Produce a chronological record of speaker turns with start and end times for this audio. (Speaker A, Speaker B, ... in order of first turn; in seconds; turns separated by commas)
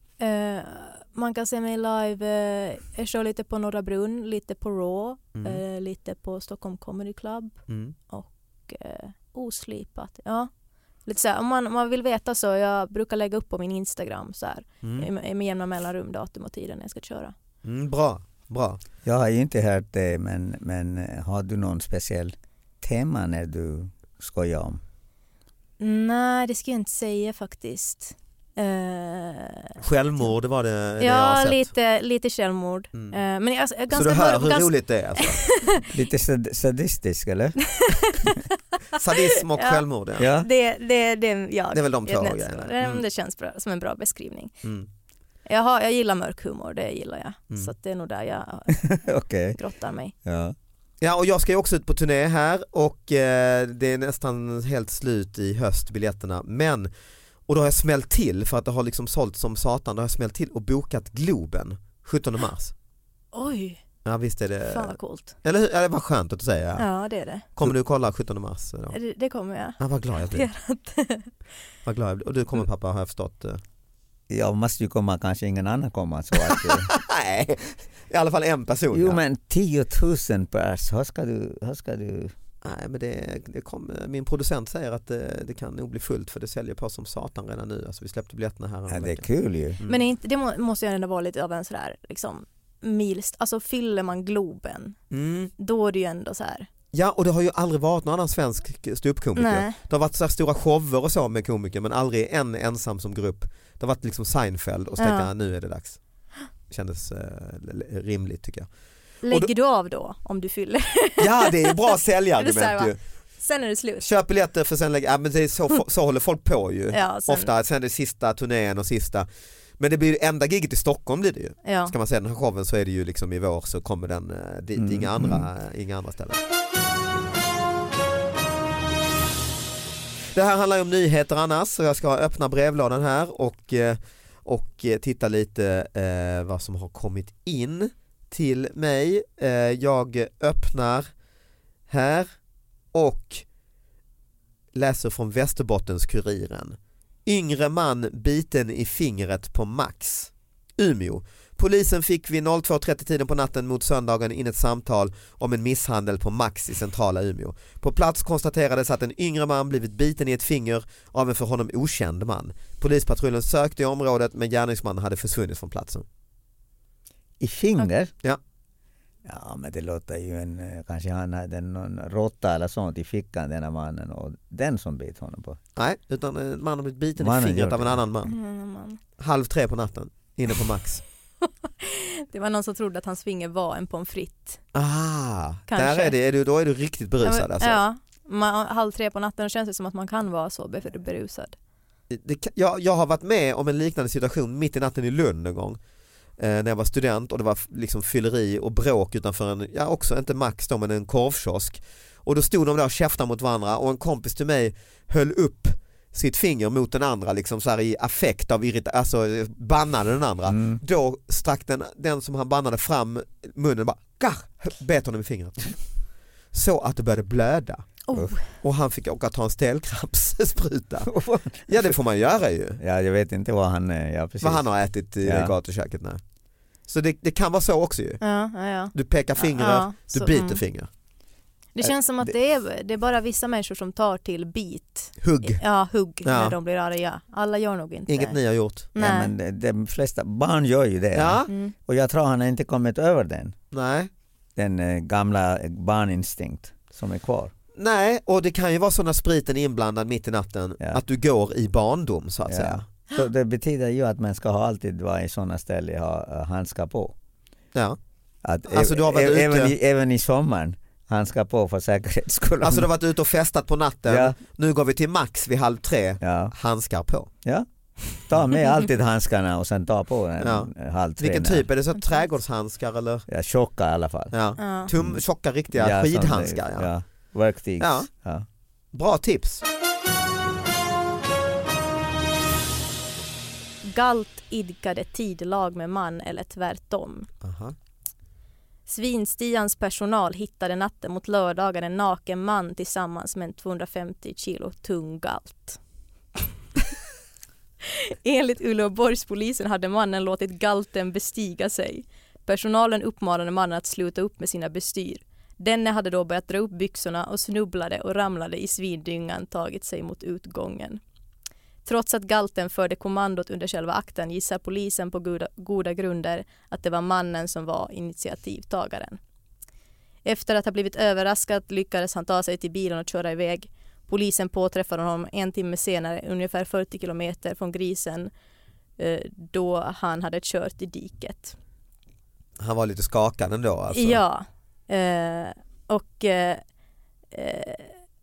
Speaker A: 0.2-10.5, Speaker B: 5.3-5.6, Speaker B: 7.7-8.0, Speaker A: 11.1-17.3, Speaker B: 14.8-15.1, Speaker B: 17.6-18.8, Speaker C: 19.1-24.8, Speaker A: 25.8-29.8, Speaker B: 29.8-31.7, Speaker A: 31.0-34.7, Speaker B: 33.9-35.5, Speaker A: 35.5-35.8, Speaker C: 35.9-37.6, Speaker A: 37.7-38.4, Speaker B: 39.0-40.3, Speaker A: 39.6-39.8, Speaker C: 40.2-40.5, Speaker A: 40.4-44.5, Speaker B: 41.7-43.0, Speaker A: 45.5-48.8, Speaker C: 48.8-49.6, Speaker A: 49.6-50.1, Speaker C: 50.2-50.5, Speaker B: 51.0-56.9, Speaker B: 57.5-62.7, Speaker A: 63.3-63.8, Speaker B: 64.0-66.9, Speaker A: 64.7-65.3, Speaker A: 66.8-67.5, Speaker B: 67.6-69.0, Speaker A: 68.9-71.3, Speaker B: 69.8-70.5, Speaker B: 71.8-73.6, Speaker C: 74.3-76.9, Speaker B: 76.4-79.2, Speaker C: 78.9-82.3, Speaker B: 82.6-89.3, Speaker C: 88.9-89.8, Speaker B: 89.8-90.0, Speaker A: 89.9-95.0, Speaker B: 95.1-95.5, Speaker A: 95.6-96.7, Speaker B: 96.9-106.0, Speaker A: 99.4-99.8, Speaker A: 105.0-105.3, Speaker B: 106.7-108.7, Speaker A: 109.2-114.1, Speaker B: 111.2-113.0, Speaker B: 114.0-119.3, Speaker A: 116.9-117.5, Speaker B: 119.8-126.4, Speaker A: 121.7-121.9, Speaker C: 124.8-125.5, Speaker B: 130.3-141.1, Speaker B: 141.9-142.3, Speaker B: 142.9-143.4, Speaker B: 144.8-166.1, Speaker C: 167.4-168.1, Speaker C: 169.2-175.6, Speaker B: 175.8-178.3, Speaker C: 177.2-178.0, Speaker A: 178.2-179.0, Speaker B: 179.2-181.0, Speaker A: 181.8-184.6, Speaker B: 184.7-187.8, Speaker A: 185.7-186.1, Speaker A: 187.2-191.6, Speaker B: 192.1-195.8, Speaker B: 196.4-215.8, Speaker C: 210.5-210.8, Speaker B: 216.5-217.9, Speaker A: 218.1-218.4, Speaker B: 218.6-221.1, Speaker C: 221.1-221.9, Speaker B: 221.7-222.8, Speaker C: 222.8-224.6, Speaker B: 224.4-226.2, Speaker C: 225.2-225.5, Speaker B: 226.9-228.2, Speaker A: 228.2-230.6, Speaker B: 228.9-230.9, Speaker A: 231.8-238.4, Speaker B: 235.2-235.6, Speaker B: 236.2-236.6, Speaker B: 238.1-238.9, Speaker A: 238.9-239.3, Speaker C: 239.0-243.6, Speaker B: 241.1-241.5, Speaker A: 241.5-241.7, Speaker B: 243.7-244.1, Speaker C: 244.6-247.5, Speaker B: 247.8-252.8, Speaker C: 252.5-257.1, Speaker C: 258.4-262.9, Speaker B: 258.7-259.7, Speaker B: 262.6-267.3, Speaker C: 264.1-264.4, Speaker C: 266.2-266.5, Speaker C: 268.3-271.7, Speaker B: 270.4-273.2, Speaker C: 273.3-274.4, Speaker B: 274.3-276.9, Speaker A: 274.6-274.9, Speaker C: 275.0-275.2, Speaker C: 275.7-278.5, Speaker B: 277.8-278.1, Speaker B: 278.9-279.6, Speaker A: 283.8-287.3, Speaker B: 287.4-287.8, Speaker A: 288.9-295.8, Speaker A: 297.9-311.0, Speaker A: 311.9-319.2, Speaker A: 320.2-328.3, Speaker A: 329.0-331.6, Speaker B: 332.6-334.2, Speaker A: 333.9-336.6, Speaker A: 337.3-338.0